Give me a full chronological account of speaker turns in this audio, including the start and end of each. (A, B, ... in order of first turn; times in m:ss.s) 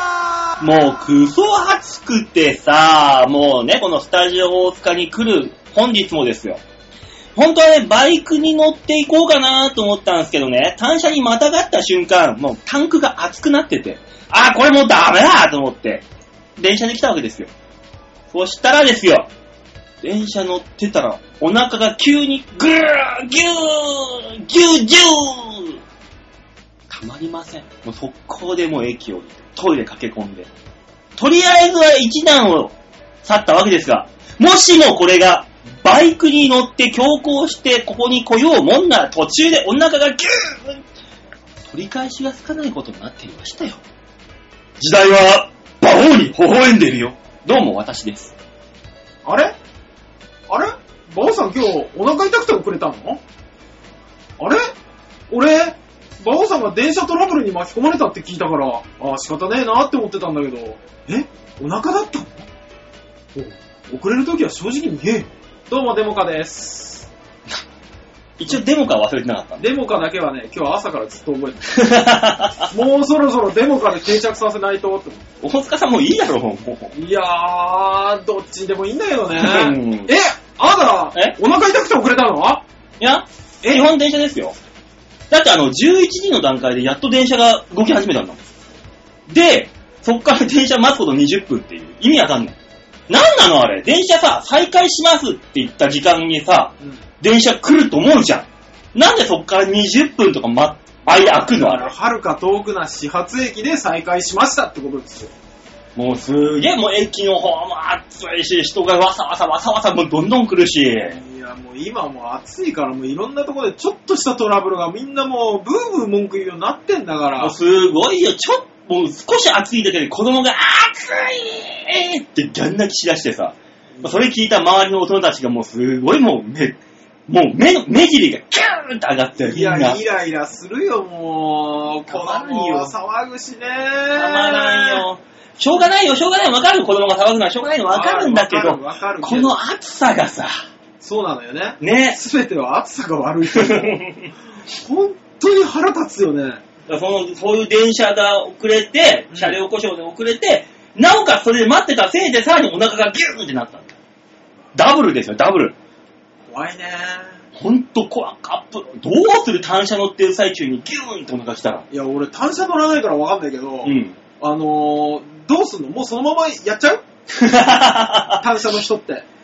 0:00.6-0:06.6 A
0:07.3-0:16.0 A
0:16.6-0:17.5 A
0:18.3-0:19.3 A
0:20.0-0:25.8 A
0:26.9-0:30.5 A
0:31.2-0:40.8 A
0:41.7-0:43.8 A
0:44.8-0:48.3 A
0:49.2-0:49.5 B
0:50.5-0:53.2 B
0:54.4-0:54.7 B
0:55.3-1:02.5 B
1:03.3-1:07.1 B
1:08.4-1:09.7 A
1:09.6-1:11.8 B
1:11.6-1:12.7 A
1:12.6-1:15.2 B
1:15.4-1:16.9 A
1:17.0-1:22.6 B
1:19.4-1:20.1 A
1:23.0-1:24.5 A
1:25.3-1:28.4 A
1:29.3-1:32.5 A
1:33.1-1:41.9 A
1:41.1-1:45.3 B
1:46.0-1:51.2 A
1:51.1-1:57.5 B
1:57.4-2:10.0 A
2:04.0-2:04.2 B
2:09.4-2:15.0 B
2:12.1-2:12.9 A
2:14.1-2:20.6 A
2:17.9-2:19.5 B
2:21.0-2:24.0 B
2:21.8-2:22.2 A
2:23.5-2:24.3 A
2:24.7-2:26.6 B
2:26.9-2:33.9 A
2:29.3-2:29.6 B
2:34.7-2:35.7 A
2:36.5-2:37.4 B
2:37.6-2:41.8 A
2:41.9-2:47.0 B
2:43.8-2:44.2 A
2:47.3-2:48.4 A
2:48.4-2:49.2 B